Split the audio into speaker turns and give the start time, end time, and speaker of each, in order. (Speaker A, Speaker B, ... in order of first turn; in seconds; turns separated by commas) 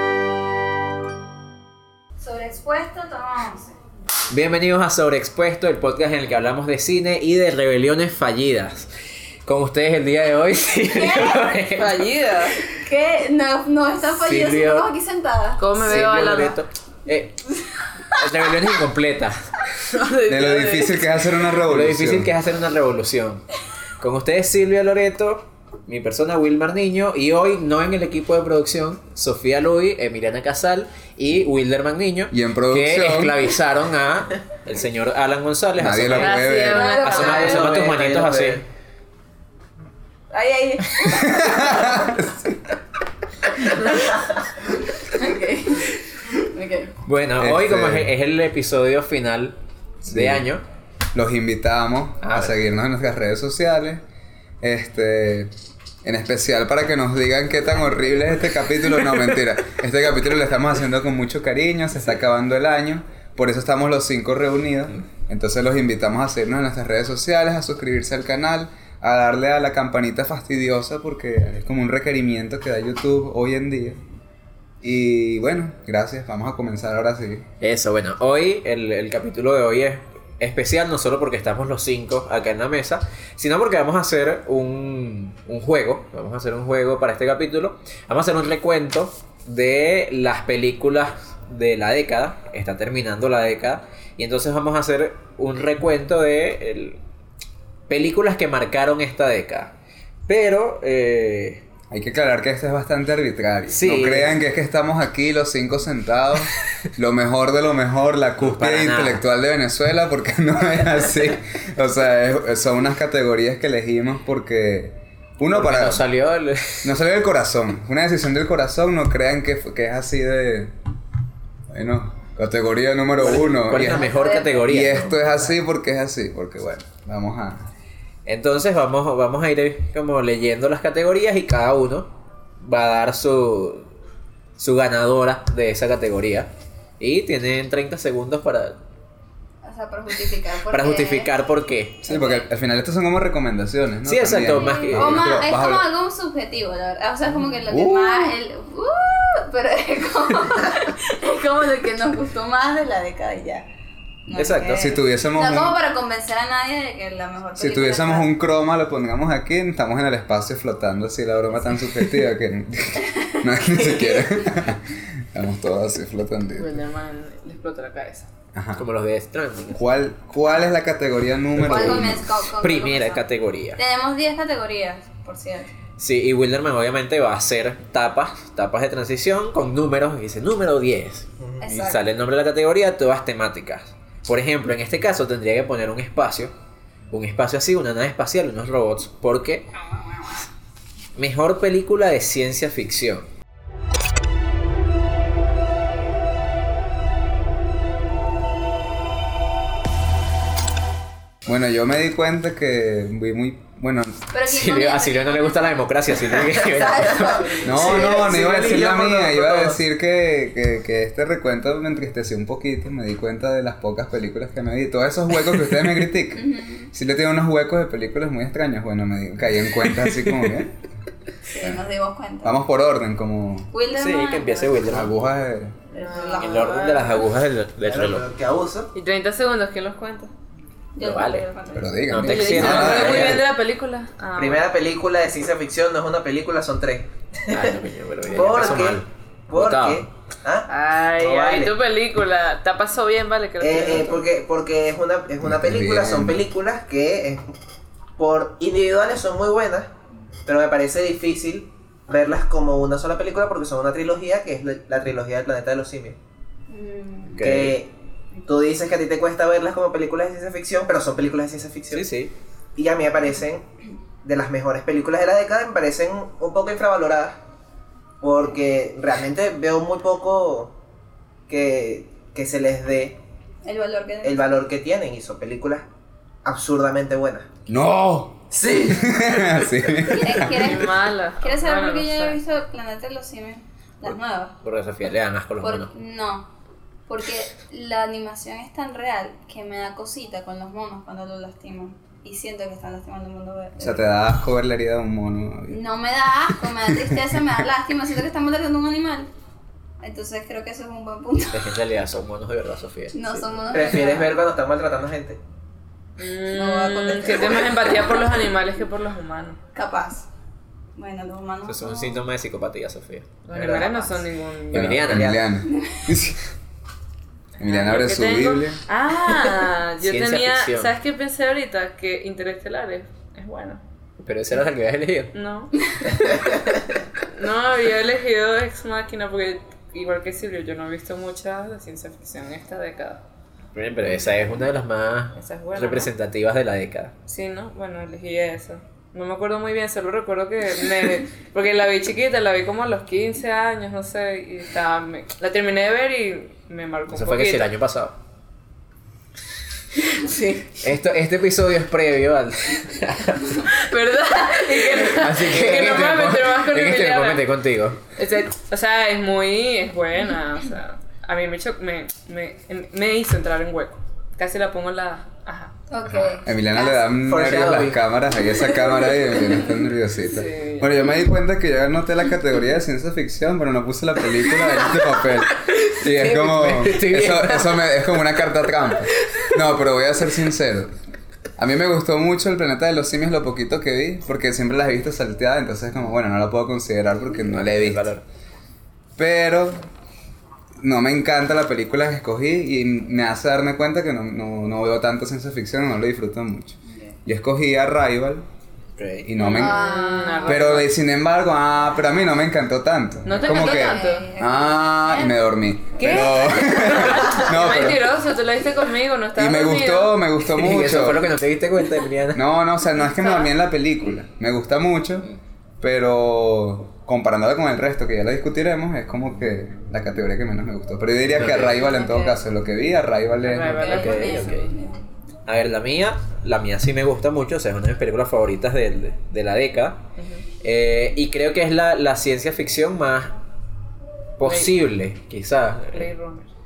Speaker A: 2.2-3.7, Speaker B: 4.3-8.9, Speaker B: 9.4-12.1, Speaker A: 10.9-11.5, Speaker C: 11.7-12.6, Speaker A: 12.7-15.7, Speaker B: 14.2-14.9, Speaker C: 15.6-16.6, Speaker B: 15.8-17.4, Speaker B: 18.1-19.7, Speaker C: 19.9-21.1, Speaker D: 20.3-22.3, Speaker B: 21.7-23.4, Speaker B: 24.0-38.6, Speaker D: 32.3-33.4, Speaker D: 35.8-36.9, Speaker C: 36.1-37.9, Speaker A: 36.6-37.8, Speaker E: 37.1-38.6, Speaker A: 40.3-42.1, Speaker D: 41.1-42.7, Speaker A: 45.0-46.0, Speaker A: 46.5-46.9, Speaker B: 47.0-50.6, Speaker D: 47.4-48.1, Speaker D: 50.0-50.5, Speaker D: 51.1-54.0, Speaker B: 52.2-52.6, Speaker D: 54.6-55.5, Speaker D: 56.0-74.0, Speaker D: 74.8-77.4, Speaker B: 77.6-97.0, Speaker B: 97.9-99.7, Speaker B: 100.3-101.6, Speaker D: 101.9-116.0, Speaker B: 103.7-104.3, Speaker B: 108.4-109.2, Speaker B: 115.5-117.0, Speaker D: 116.8-120.7, Speaker D: 121.7-127.7, Speaker B: 123.2-125.5, Speaker A: 123.7-125.0, Speaker B: 128.2-133.9, Speaker B: 134.6-138.8, Speaker A: 139.6-141.3, Speaker B: 140.7-142.1, Speaker D: 142.0-145.9, Speaker A: 142.1-142.4, Speaker B: 144.1-145.4, Speaker A: 144.5-153.7, Speaker D: 147.7-148.1, Speaker A: 154.3-158.3, Speaker B: 154.3-154.9, Speaker D: 154.7-155.8, Speaker D: 157.6-166.8, Speaker A: 163.2-164.5, Speaker C: 166.6-168.3, Speaker D: 168.5-168.8, Speaker B: 168.8-169.8, Speaker D: 169.7-172.2, Speaker B: 171.6-173.8, Speaker A: 171.6-175.7, Speaker B: 176.0-186.5, Speaker E: 181.4-181.6, Speaker A: 181.6-182.0, Speaker B: 187.1-189.7, Speaker B: 191.2-193.3, Speaker D: 201.4-204.2, Speaker A: 204.3-205.8, Speaker B: 204.4-207.6, Speaker A: 206.7-207.8, Speaker D: 207.6-220.7, Speaker E: 207.6-209.8, Speaker A: 216.3-216.9, Speaker B: 219.8-220.6, Speaker A: 221.5-222.6, Speaker D: 222.4-223.7, Speaker A: 223.7-224.7, Speaker B: 223.9-225.1, Speaker D: 224.9-225.8, Speaker A: 225.9-227.0, Speaker C: 225.9-227.2, Speaker B: 226.4-228.2, Speaker E: 227.8-228.9, Speaker C: 228.9-230.3, Speaker A: 230.9-232.0, Speaker B: 231.0-231.4, Speaker D: 231.7-233.4, Speaker B: 232.1-233.5, Speaker C: 232.2-234.7, Speaker E: 234.4-237.8, Speaker B: 237.5-240.0, Speaker E: 238.3-241.8, Speaker C: 240.7-244.2, Speaker E: 243.6-247.5, Speaker D: 245.4-246.4, Speaker E: 248.2-249.9, Speaker E: 250.4-256.2, Speaker A: 256.7-257.4, Speaker B: 257.3-257.8, Speaker E: 257.4-257.9, Speaker E: 258.4-262.1, Speaker B: 261.9-262.3, Speaker E: 262.8-263.6, Speaker E: 264.2-267.4, Speaker E: 268.2-270.7, Speaker E: 271.5-273.2, Speaker A: 273.6-274.4, Speaker E: 274.2-275.9, Speaker E: 276.4-277.5, Speaker D: 277.7-280.7, Speaker E: 278.5-279.1, Speaker A: 280.2-284.6, Speaker C: 280.5-282.4, Speaker B: 284.6-285.9, Speaker A: 285.6-286.5, Speaker A: 287.1-294.0, Speaker D: 293.8-295.8, Speaker A: 295.7-299.3, Speaker D: 296.8-297.4, Speaker A: 300.0-301.8, Speaker B: 301.5-303.8, Speaker A: 303.1-304.3, Speaker E: 303.7-305.4, Speaker C: 306.2-309.6, Speaker A: 306.5-307.9, Speaker A: 309.7-310.3, Speaker A: 310.9-312.2, Speaker B: 311.6-313.7, Speaker C: 313.4-315.3, Speaker E: 313.5-314.2, Speaker B: 314.7-315.4, Speaker D: 314.7-316.4, Speaker A: 315.6-316.0, Speaker D: 317.6-318.8, Speaker C: 317.6-323.8, Speaker B: 320.0-320.9, Speaker B: 324.2-325.3, Speaker C: 325.3-326.3, Speaker C: 327.2-333.2, Speaker B: 333.7-337.1, Speaker C: 335.3-336.1, Speaker C: 337.3-347.7, Speaker B: 347.1-348.1, Speaker C: 350.1-350.7, Speaker B: 350.8-353.7, Speaker C: 353.7-357.5, Speaker B: 355.0-358.0, Speaker C: 358.1-365.7, Speaker A: 365.9-367.1, Speaker D: 366.4-380.9, Speaker E: 367.2-368.0, Speaker C: 370.2-371.1, Speaker B: 375.5-377.9, Speaker B: 379.2-379.5, Speaker D: 381.6-388.1, Speaker B: 387.4-388.2, Speaker D: 389.2-389.9, Speaker D: 390.8-398.4, Speaker A: 396.9-397.2, Speaker B: 398.9-399.3, Speaker D: 399.2-399.8, Speaker C: 399.4-400.9, Speaker A: 399.4-400.7, Speaker D: 400.4-408.1, Speaker C: 403.2-404.3, Speaker A: 403.4-407.4, Speaker C: 406.0-410.2, Speaker D: 409.4-411.3, Speaker B: 410.5-412.4, Speaker D: 412.3-415.2, Speaker C: 413.0-413.5, Speaker D: 415.8-423.9, Speaker B: 421.3-421.9, Speaker A: 421.8-422.4, Speaker C: 423.4-424.7, Speaker A: 423.6-425.0, Speaker B: 423.9-424.7, Speaker B: 425.4-430.0, Speaker C: 430.2-430.4, Speaker B: 430.6-433.3, Speaker B: 434.4-436.1, Speaker C: 434.4-434.7, Speaker C: 435.9-436.5